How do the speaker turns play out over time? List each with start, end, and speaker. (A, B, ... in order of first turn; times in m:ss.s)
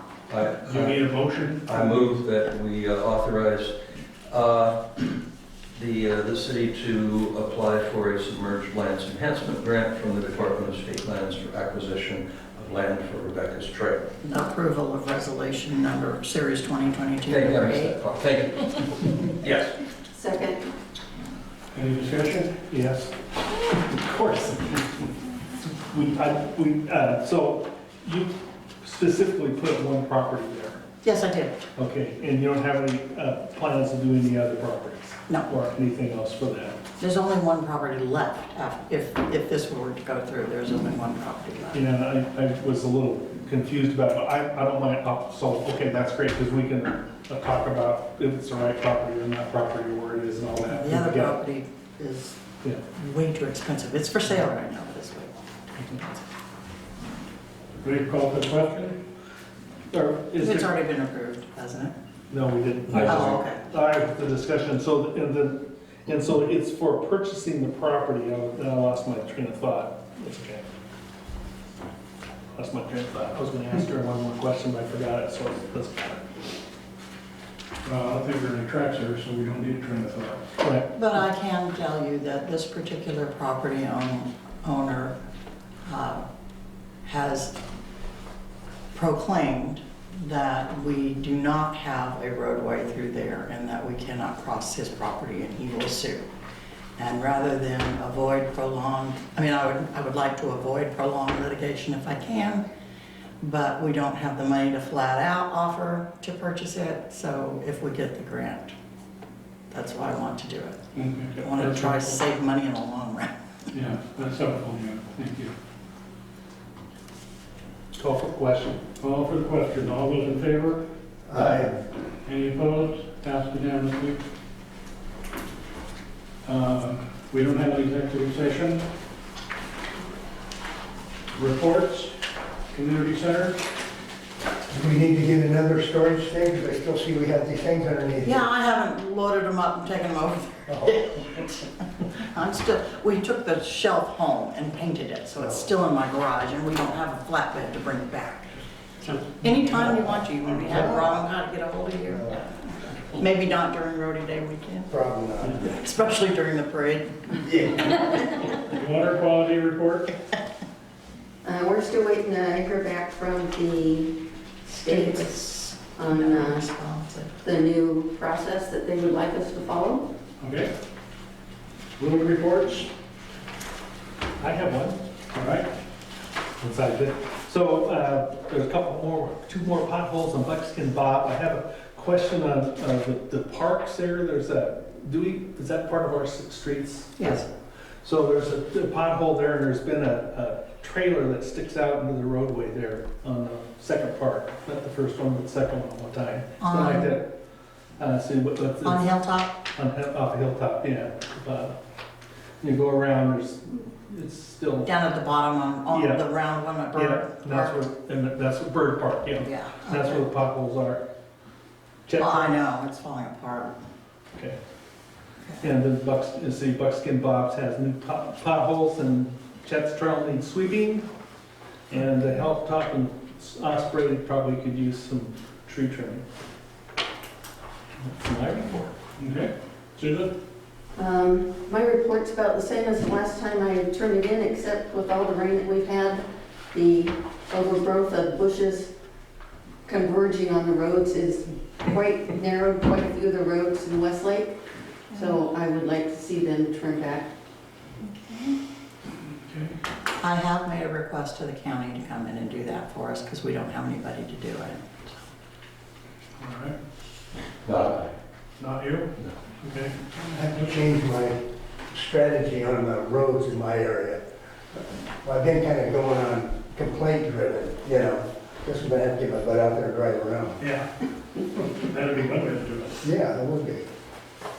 0:00.3-0:01.0 A
0:00.6-0:02.2 B
0:01.7-0:03.7 A
0:04.3-0:05.1 A
0:05.7-0:14.1 A
0:14.2-0:18.0 C
0:17.3-0:19.7 A
0:20.1-0:20.6 D
0:21.7-0:22.6 B
0:22.7-0:25.1 E
0:25.6-0:30.8 E
0:31.0-0:31.6 C
0:31.8-0:36.8 E
0:37.0-0:41.8 C
0:41.7-0:51.4 E
0:50.6-0:52.4 C
0:53.0-0:56.2 C
0:57.8-0:59.0 B
0:59.9-1:00.8 E
1:00.4-1:01.9 C
1:02.3-1:10.6 E
1:03.0-1:03.6 C
1:12.5-1:16.3 E
1:17.8-1:20.4 B
1:20.6-1:20.8 E
1:20.9-1:25.1 C
1:25.8-1:26.2 C
1:27.0-1:27.5 C
1:28.9-1:36.2 C
1:37.0-1:42.6 C
1:43.4-1:48.7 C
1:49.7-1:50.8 C
1:50.9-1:52.2 B
1:51.4-1:53.3 C
1:53.7-1:55.5 B
1:58.0-1:58.8 E
1:59.0-2:00.8 B
2:01.4-2:01.7 E
2:02.2-2:04.2 B
2:06.4-2:08.9 B
2:11.3-2:12.1 B
2:12.7-2:13.6 B
2:14.7-2:18.4 F
2:18.2-2:28.6 C
2:29.0-2:30.2 B
2:29.1-2:38.3 C
2:30.6-2:31.0 F
2:34.9-2:35.5 F
2:37.4-2:37.8 F
2:38.6-2:40.1 B
2:41.4-2:45.4 D
2:44.8-2:47.3 C
2:46.0-2:46.6 D
2:47.4-2:50.1 D
2:50.4-2:50.7 B
2:52.0-2:52.9 B
2:54.4-2:55.0 E
2:55.3-2:55.7 B
2:56.6-3:07.4 E
3:07.2-3:07.5 C
3:08.0-3:17.2 E
3:16.6-3:17.1 C
3:18.0-3:19.0 E
3:18.8-3:19.5 C
3:19.7-3:21.8 E
3:22.6-3:24.9 E
3:24.8-3:27.8 C
3:25.9-3:26.2 E
3:26.9-3:31.0 E
3:29.4-3:30.2 C
3:32.1-3:32.6 E
3:32.2-3:33.8 C
3:35.6-3:41.1 E
3:41.9-3:46.2 E
3:48.0-3:48.9 E
3:49.2-3:50.3 B
3:51.0-3:58.9 D
3:59.8-4:04.6 D
4:05.1-4:07.3 D
4:05.1-4:05.4 C
4:08.0-4:08.6 C
4:09.3-4:09.8 B
4:10.2-4:15.1 C
4:16.4-4:16.8 B
4:17.6-4:18.0 A
4:18.6-4:20.0 B
4:20.2-4:24.2 F
4:25.2-4:30.6 F
4:30.6-4:30.9 B
4:31.7-4:33.0 B
4:33.0-4:33.8 F